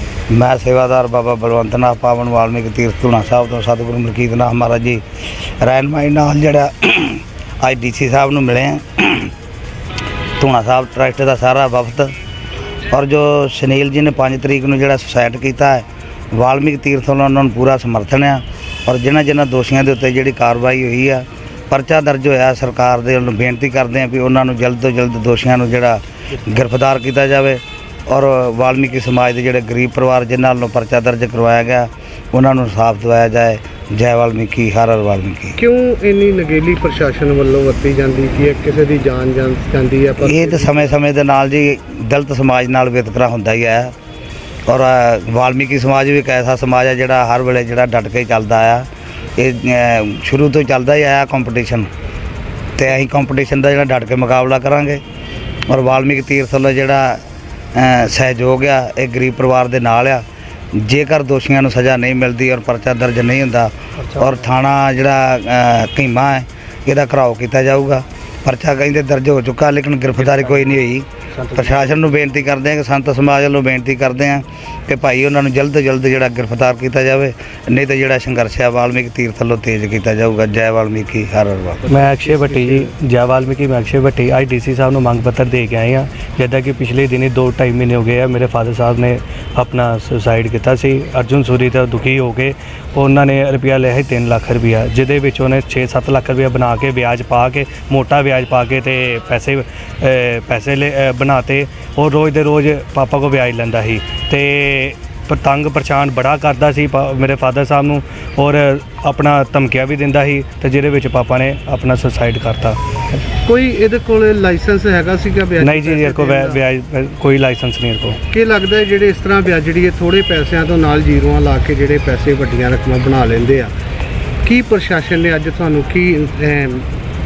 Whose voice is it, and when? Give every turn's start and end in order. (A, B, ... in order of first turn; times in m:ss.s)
0:00.3-0:09.3 A
0:10.4-0:12.1 A
0:12.9-0:35.6 A
0:35.6-0:40.8 B
0:40.2-0:43.9 A
0:44.7-0:48.8 A
0:49.4-0:51.9 A
0:52.8-0:55.0 A
0:55.7-1:21.8 A
1:04.0-1:04.4 C
1:10.2-1:10.7 C
1:11.4-1:11.8 C
1:21.9-1:52.8 C
1:53.4-1:56.6 B
1:55.6-1:58.2 C
1:58.3-2:03.7 B
2:04.4-2:06.9 B